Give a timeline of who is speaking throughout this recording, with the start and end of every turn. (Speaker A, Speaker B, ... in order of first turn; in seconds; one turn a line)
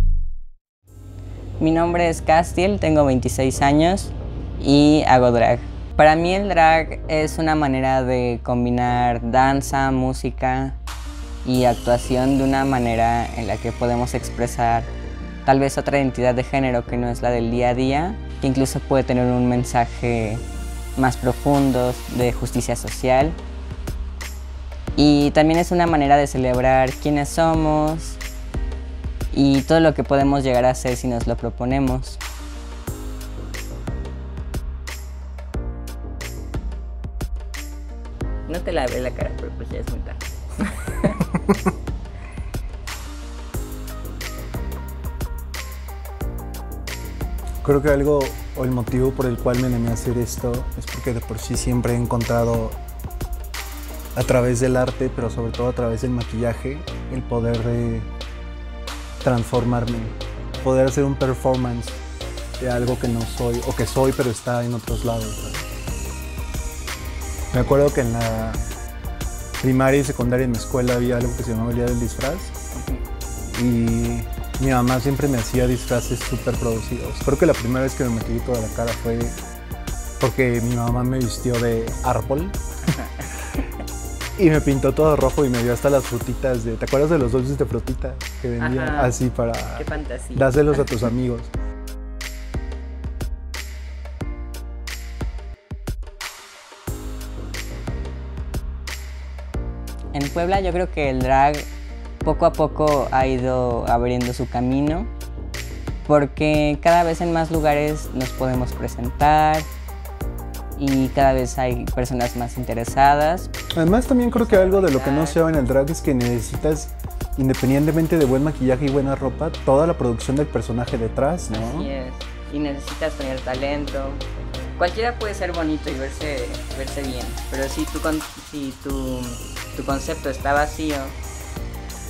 Speaker A: 1.6-10.8
Speaker A: 11.4-14.9
Speaker A: 15.4-20.4
Speaker A: 20.9-23.4
Speaker A: 24.9-28.2
Speaker A: 29.3-32.2
Speaker A: 38.5-41.2
Speaker B: 47.6-52.8
Speaker B: 54.1-58.1
Speaker B: 59.2-62.0
Speaker B: 62.6-65.7
Speaker B: 67.5-68.6
Speaker B: 69.6-72.5
Speaker A: 72.7-73.0
Speaker B: 73.5-79.4
Speaker B: 80.2-82.6
Speaker A: 82.9-83.7
Speaker B: 84.4-91.5
Speaker A: 88.6-89.2
Speaker A: 89.7-91.1
Speaker A: 100.1-101.7
Speaker A: 102.2-105.1
Speaker A: 106.1-109.7
Speaker A: 110.8-113.5
Speaker B: 113.7-121.9
Speaker A: 114.3-115.4
Speaker A: 121.5-124.2
Speaker A: 124.8-131.2